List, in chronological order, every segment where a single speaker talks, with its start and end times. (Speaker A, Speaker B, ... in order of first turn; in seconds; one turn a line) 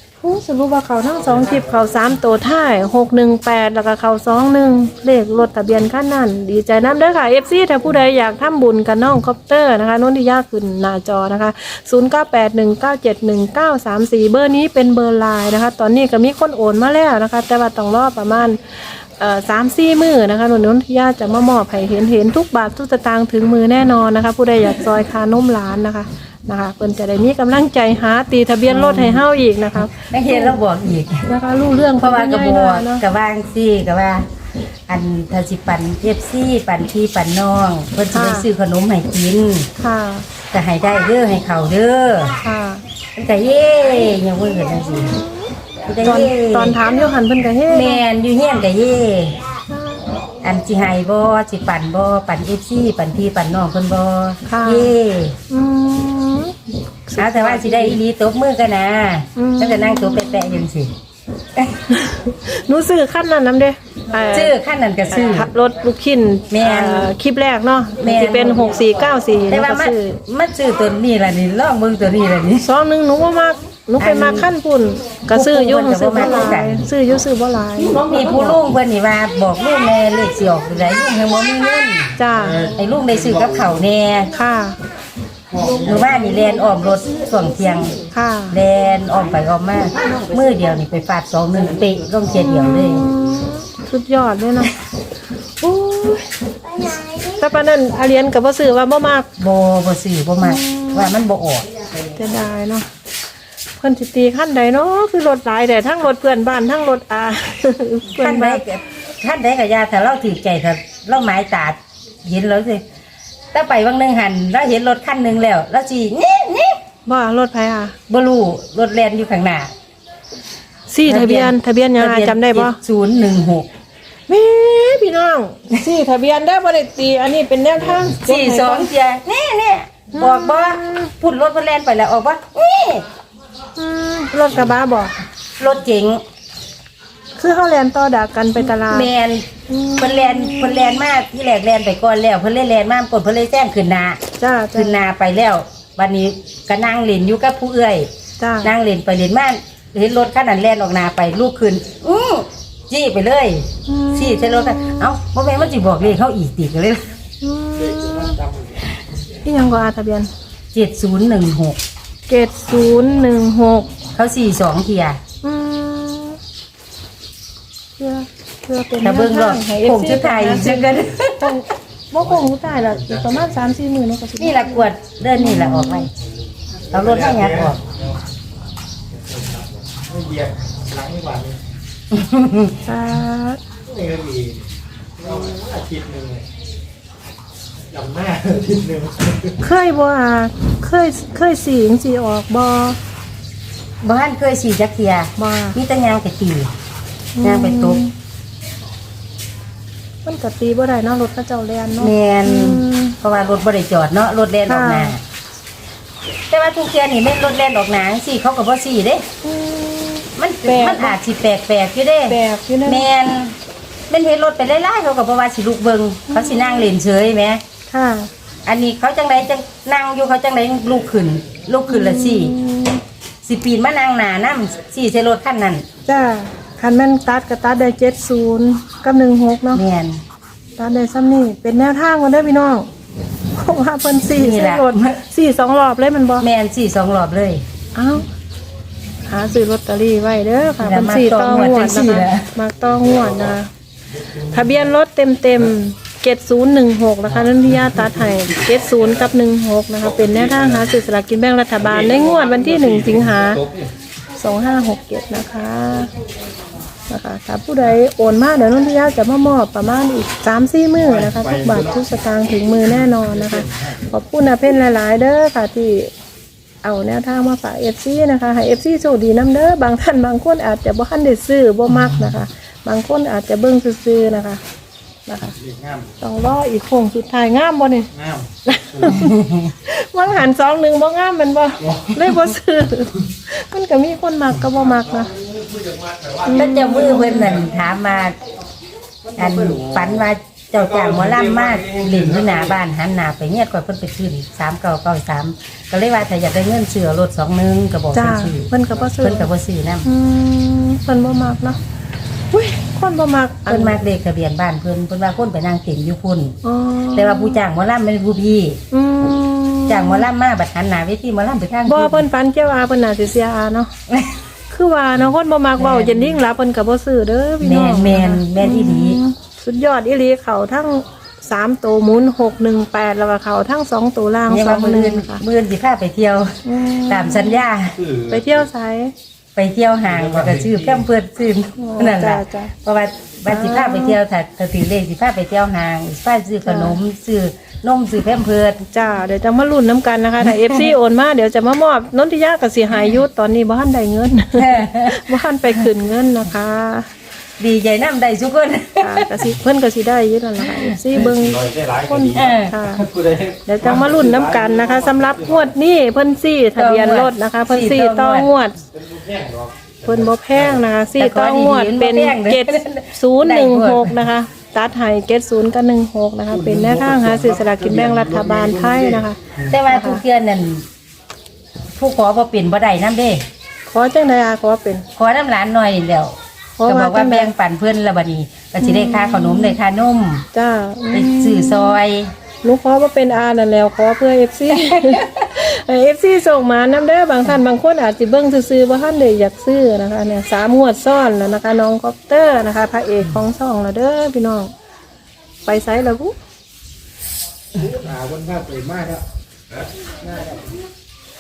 Speaker A: 0.2-30.6
Speaker B: 28.7-31.2
Speaker A: 31.3-33.0
Speaker B: 31.9-34.3
Speaker B: 34.9-39.7
Speaker A: 38.1-38.5
Speaker A: 39.8-40.3
Speaker B: 40.5-42.4
Speaker A: 42.4-42.8
Speaker B: 43.2-45.2
Speaker B: 45.9-46.8
Speaker A: 46.0-48.0
Speaker B: 47.7-49.4
Speaker A: 49.7-50.0
Speaker B: 50.4-55.4
Speaker A: 54.5-54.9
Speaker A: 55.5-58.0
Speaker B: 57.2-60.9
Speaker A: 59.4-60.5
Speaker A: 61.9-64.5
Speaker B: 64.3-65.5
Speaker A: 65.1-70.2
Speaker B: 66.5-67.1
Speaker B: 68.0-68.7
Speaker B: 69.5-72.7
Speaker A: 72.6-78.6
Speaker B: 74.0-74.5
Speaker B: 75.3-76.8
Speaker B: 77.9-82.1
Speaker A: 82.2-82.7
Speaker C: 82.5-83.7
Speaker B: 82.8-84.3
Speaker A: 84.3-84.8
Speaker C: 85.5-85.9
Speaker B: 85.8-88.0
Speaker A: 88.1-88.6
Speaker B: 88.5-93.1
Speaker A: 92.3-94.8
Speaker A: 95.6-99.3
Speaker B: 99.4-101.7
Speaker A: 100.4-101.1
Speaker A: 102.2-102.9
Speaker A: 103.8-108.6
Speaker B: 108.2-112.8
Speaker B: 113.5-116.8
Speaker A: 117.1-118.0
Speaker B: 118.1-119.7
Speaker A: 120.9-122.8
Speaker B: 121.0-123.7
Speaker A: 124.3-128.9
Speaker B: 128.2-133.1
Speaker A: 130.1-131.1
Speaker A: 133.8-135.2
Speaker B: 135.6-136.2
Speaker A: 137.4-139.1
Speaker B: 138.7-139.5
Speaker A: 139.7-141.1
Speaker B: 140.0-144.2
Speaker A: 144.4-145.0
Speaker B: 144.8-148.1
Speaker A: 148.4-148.7
Speaker B: 148.6-157.1
Speaker A: 153.9-155.1
Speaker A: 157.4-158.4
Speaker C: 157.9-158.7
Speaker A: 159.4-160.3
Speaker B: 160.7-161.8
Speaker A: 162.3-163.9
Speaker B: 164.2-165.2
Speaker A: 165.4-166.4
Speaker A: 168.0-174.9
Speaker B: 169.0-171.6
Speaker B: 174.4-176.1
Speaker A: 175.4-176.1
Speaker B: 176.9-177.8
Speaker C: 176.9-177.7
Speaker C: 180.0-181.6
Speaker B: 182.1-182.8
Speaker A: 182.8-183.6
Speaker C: 183.9-184.6
Speaker C: 185.2-186.4
Speaker C: 187.9-189.5
Speaker A: 189.6-193.0
Speaker B: 194.0-196.7
Speaker A: 195.4-195.8
Speaker A: 197.4-198.1
Speaker B: 197.4-198.0
Speaker A: 200.2-203.2
Speaker B: 202.0-205.2
Speaker A: 204.7-205.2
Speaker B: 206.5-209.2
Speaker A: 209.4-211.2
Speaker B: 210.4-213.6
Speaker A: 212.3-213.1
Speaker B: 214.1-217.6
Speaker A: 216.3-216.9
Speaker A: 217.9-218.3
Speaker B: 218.7-222.6
Speaker A: 221.9-223.0
Speaker B: 223.4-225.8
Speaker A: 226.1-229.8
Speaker B: 229.7-230.2
Speaker A: 230.8-232.9
Speaker A: 233.5-236.5
Speaker B: 234.2-235.2
Speaker B: 236.4-237.6
Speaker A: 237.9-238.3
Speaker A: 239.3-243.7
Speaker B: 240.8-242.5
Speaker A: 244.5-253.6
Speaker C: 250.2-250.6
Speaker C: 251.8-253.8
Speaker A: 254.4-256.1
Speaker A: 257.1-266.1
Speaker C: 261.1-261.8
Speaker A: 266.8-274.6
Speaker A: 275.3-275.6
Speaker C: 275.6-276.1
Speaker A: 276.2-278.1
Speaker C: 278.1-278.5
Speaker A: 278.6-285.3
Speaker B: 279.1-279.6
Speaker C: 285.6-286.5
Speaker A: 286.5-287.6
Speaker B: 286.5-288.4
Speaker C: 289.3-290.0
Speaker B: 289.4-300.1
Speaker C: 291.1-292.5
Speaker A: 298.1-299.5
Speaker A: 300.1-301.8
Speaker A: 302.5-304.0
Speaker B: 303.7-306.6
Speaker A: 306.6-307.6
Speaker B: 307.1-308.8
Speaker A: 308.9-310.3
Speaker B: 309.9-312.2
Speaker A: 311.9-313.9
Speaker B: 314.1-314.3
Speaker A: 314.7-325.4
Speaker B: 315.8-316.4
Speaker B: 317.6-319.2
Speaker B: 324.5-328.0
Speaker A: 326.6-327.6
Speaker C: 328.0-328.3
Speaker A: 328.3-329.1
Speaker B: 329.6-338.8
Speaker C: 330.2-330.8
Speaker A: 331.8-332.7
Speaker A: 333.5-334.2
Speaker A: 336.6-337.0
Speaker A: 338.9-347.1
Speaker B: 340.4-340.9
Speaker B: 344.6-345.8
Speaker B: 347.6-349.2
Speaker A: 349.0-353.1
Speaker C: 351.3-352.3
Speaker B: 352.3-352.8
Speaker C: 353.1-355.4
Speaker A: 353.7-358.8
Speaker B: 356.8-358.5
Speaker C: 359.0-360.0
Speaker A: 360.1-370.2
Speaker B: 361.2-364.2
Speaker C: 366.6-369.2
Speaker B: 369.6-370.9
Speaker B: 372.0-373.4
Speaker A: 373.9-375.0
Speaker B: 375.2-376.3
Speaker A: 376.8-377.5
Speaker B: 376.9-380.5
Speaker A: 378.8-379.8
Speaker A: 380.5-382.0
Speaker B: 381.1-382.3
Speaker A: 382.6-394.7
Speaker B: 384.7-385.2
Speaker A: 395.7-396.3
Speaker C: 397.9-399.2
Speaker C: 400.2-400.6